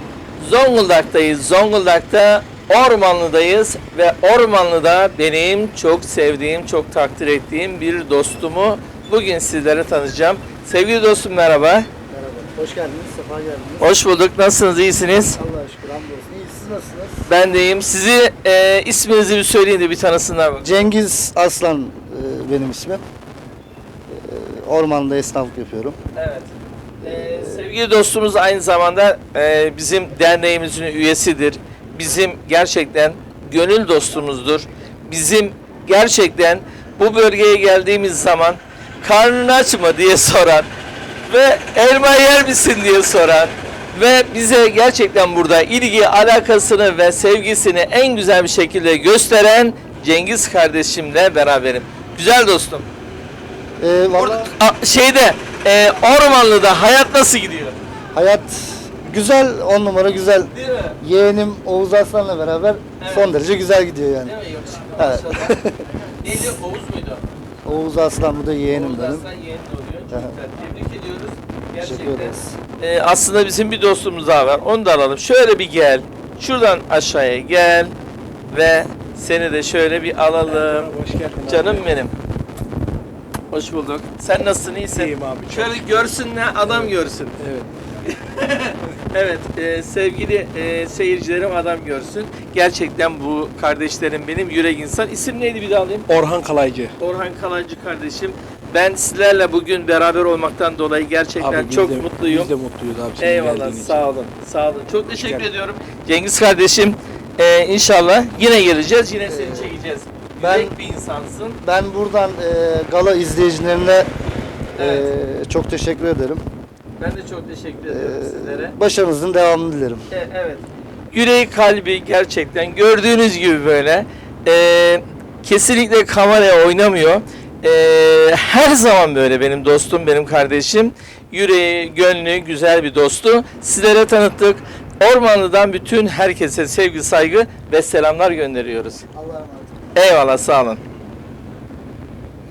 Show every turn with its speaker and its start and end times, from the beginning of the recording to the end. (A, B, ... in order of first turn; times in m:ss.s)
0:00.4-0:11.9 A
0:12.1-0:13.9 B
0:13.8-0:15.4 A
0:15.3-0:17.3 B
0:17.3-0:20.8 A
0:20.6-0:23.0 B
0:24.1-0:26.0 B
0:26.1-0:26.5 A
0:27.0-0:27.7 B
0:27.0-0:40.7 A
0:41.2-0:52.9 A
0:53.8-0:54.5 B
0:54.2-0:57.8 A
0:58.1-1:04.3 B
1:00.5-1:01.0 A
1:03.0-1:03.3 A
1:04.2-1:05.6 A
1:05.0-1:06.5 B
1:06.2-1:07.2 A
1:07.6-1:09.2 B
1:08.7-1:17.9 A
1:11.8-1:12.6 B
1:18.5-1:20.9 A
1:20.4-1:21.9 C
1:21.4-1:22.1 A
1:23.5-1:27.4 A
1:24.9-1:26.1 C
1:26.6-1:27.7 C
1:28.0-1:36.0 A
1:36.1-1:36.9 C
1:37.0-1:42.5 A
1:41.4-1:44.1 C
1:43.2-1:51.6 A
1:45.2-1:45.5 C
1:49.3-1:49.7 B
1:50.4-1:50.8 B
1:51.6-1:54.1 B
1:54.8-1:55.1 A
1:54.8-1:56.4 B
1:57.0-1:58.8 A
1:57.9-2:00.0 B
2:00.1-2:19.0 A
2:19.1-2:19.9 B
2:19.9-2:20.8 A